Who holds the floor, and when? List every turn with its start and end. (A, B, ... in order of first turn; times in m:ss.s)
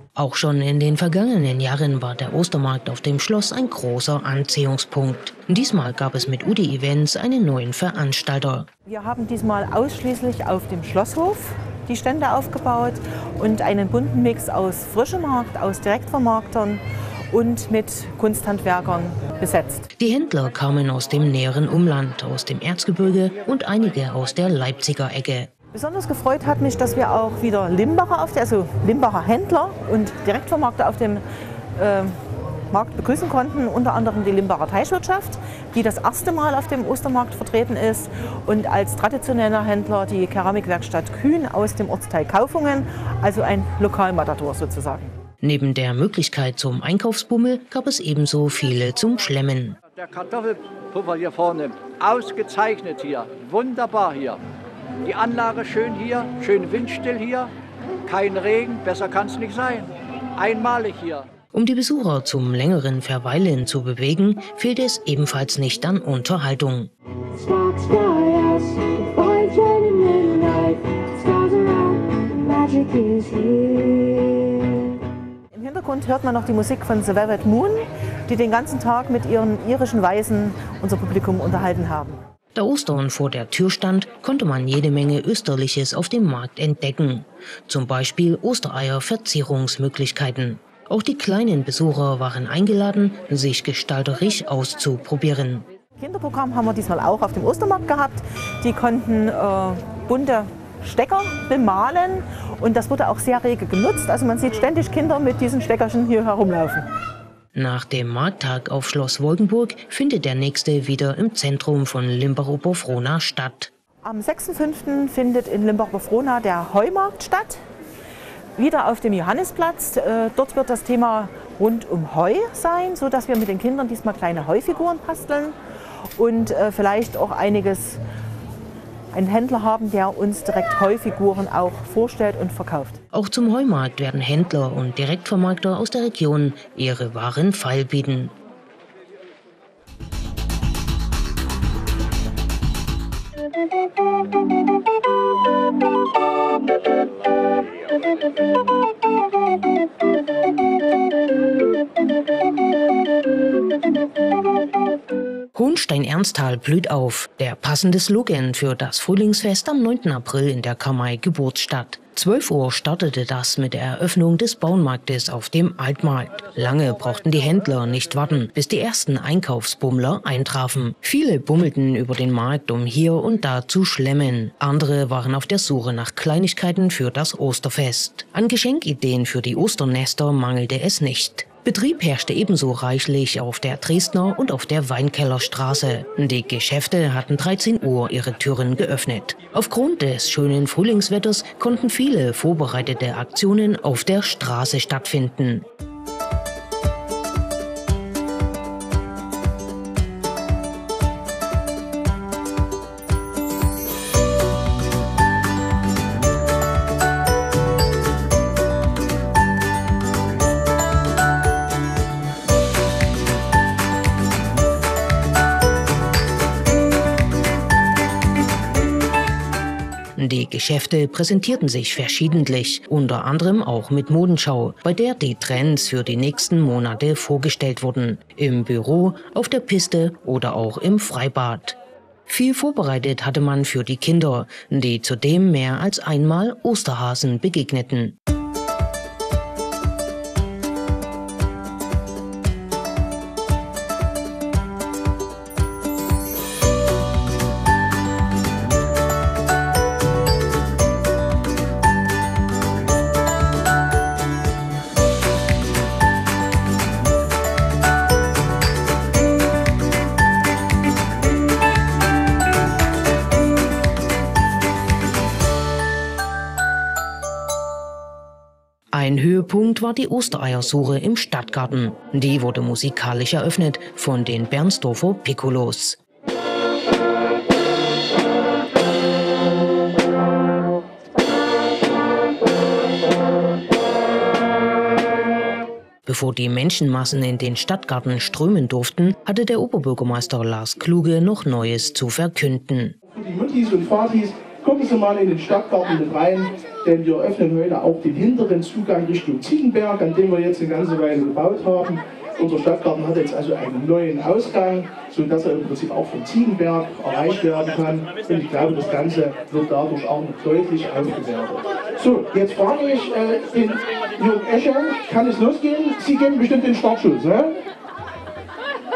0:00.2-0:08.7 A
0:08.9-0:19.9 B
0:20.0-0:25.5 A
0:25.7-0:31.2 B
0:31.8-0:32.2 B
0:32.7-0:45.1 B
0:45.4-0:49.8 A
0:49.9-0:54.4 C
0:55.0-0:57.5 C
0:58.0-1:01.3 C
1:01.5-1:06.9 A
1:07.3-1:14.8 C
1:15.5-1:22.2 B
1:22.6-1:35.7 A
1:36.0-1:46.9 B
1:47.5-1:53.7 A
1:54.0-1:57.6 B
1:58.6-2:05.6 B
2:06.2-2:08.0 B
2:09.1-2:13.0 B
2:13.1-2:18.4 A
2:35.5-3:15.6 A
3:40.2-3:58.2 A
4:28.9-4:36.0 A
4:46.1-4:53.0 A
4:53.1-5:17.6 D